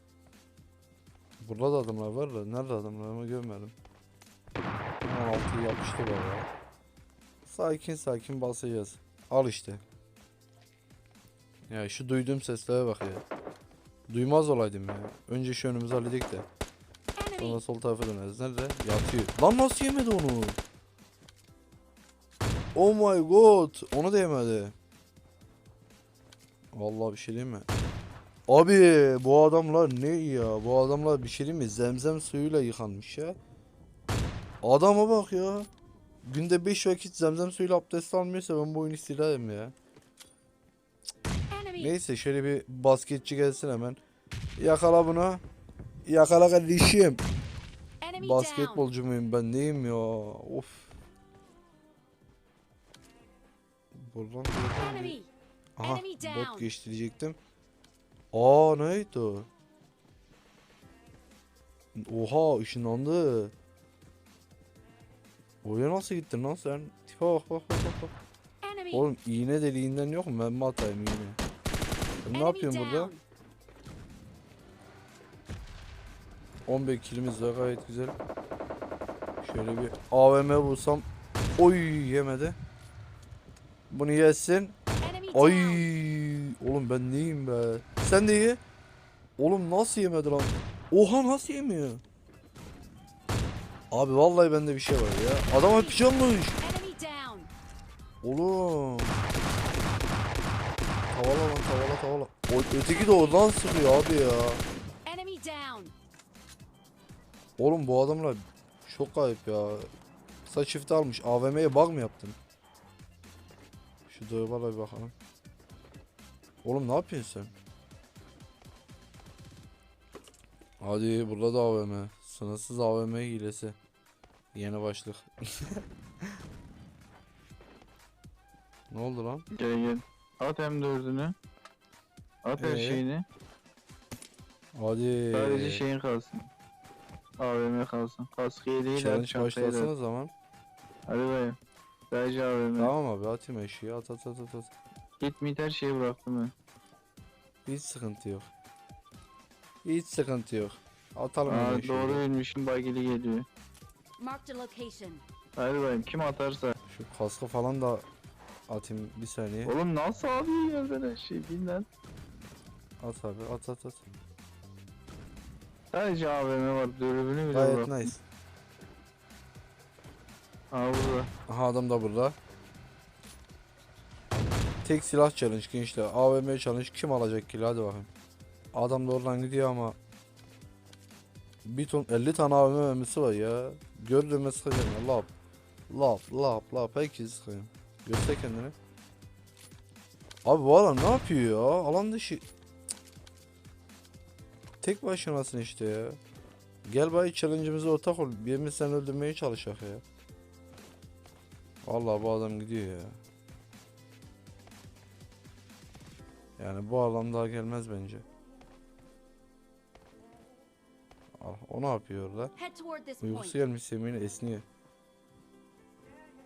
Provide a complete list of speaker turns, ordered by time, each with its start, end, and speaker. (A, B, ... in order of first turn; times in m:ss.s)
0:01.4-0:03.7 A
0:05.0-0:06.4 A
0:07.4-0:09.8 A
0:11.7-0:13.2 A
0:14.1-0:16.5 A
0:17.2-0:17.6 B
0:17.4-0:20.6 A
0:22.7-0:24.7 A
0:26.7-0:27.7 A
0:28.5-0:33.4 A
0:34.6-0:35.7 A
0:36.2-0:39.7 A
0:41.5-0:41.9 B
0:41.7-0:44.0 A
0:44.6-0:45.4 A
0:46.0-0:47.2 A
0:48.0-0:48.8 B
0:48.1-0:50.9 A
0:53.9-0:55.2 A
0:54.9-0:55.3 B
0:55.8-0:57.4 A
0:55.8-0:56.6 B
0:58.3-0:59.5 A
1:01.9-1:03.5 A
1:05.6-1:08.1 A
1:08.6-1:09.0 B
1:08.9-1:11.4 A
1:12.2-1:13.1 A
1:12.3-1:13.2 B
1:16.6-1:18.1 A
1:19.4-1:21.0 A
1:21.6-1:22.6 A
1:23.9-1:24.8 A
1:25.0-1:25.8 B
1:25.3-1:28.6 A
1:29.4-1:32.0 A
1:33.9-1:36.6 A
1:36.6-1:37.5 B
1:38.2-1:39.2 A
1:41.1-1:44.6 A
1:45.0-1:45.9 B
1:47.6-1:49.9 A
1:50.4-1:52.4 A
1:54.1-1:55.1 A
1:56.6-1:57.5 A
2:00.8-2:03.8 A
2:04.5-2:05.8 A
2:08.9-2:09.5 A
2:09.5-2:11.3 C
2:12.4-2:13.2 C
2:12.6-2:13.0 A
2:14.7-2:15.8 A
2:15.3-2:16.5 C
2:17.4-2:19.9 C
2:18.9-2:20.3 A
2:21.1-2:21.6 C
2:22.1-2:22.9 C
2:22.8-2:24.7 A
2:25.2-2:26.5 C
2:27.6-2:28.5 A
2:29.8-2:32.2 A
2:31.4-2:33.4 C
2:34.2-2:35.2 B
2:35.6-2:36.7 C
2:36.9-2:38.0 A
2:38.7-2:39.7 A
2:39.6-2:41.9 C
2:43.0-2:44.0 A
2:45.9-2:48.1 C
2:47.5-2:48.2 A
2:50.7-2:51.3 C
2:51.5-2:52.4 A
2:54.8-2:58.1 A
2:58.7-3:00.0 A
3:01.6-3:05.3 A
3:05.9-3:08.7 A
3:10.4-3:12.4 A
3:14.8-3:16.2 A
3:16.8-3:20.0 A
3:21.8-3:23.2 A
3:26.6-3:28.2 A
3:31.4-3:32.5 A
3:32.6-3:33.5 B
3:33.2-3:34.6 A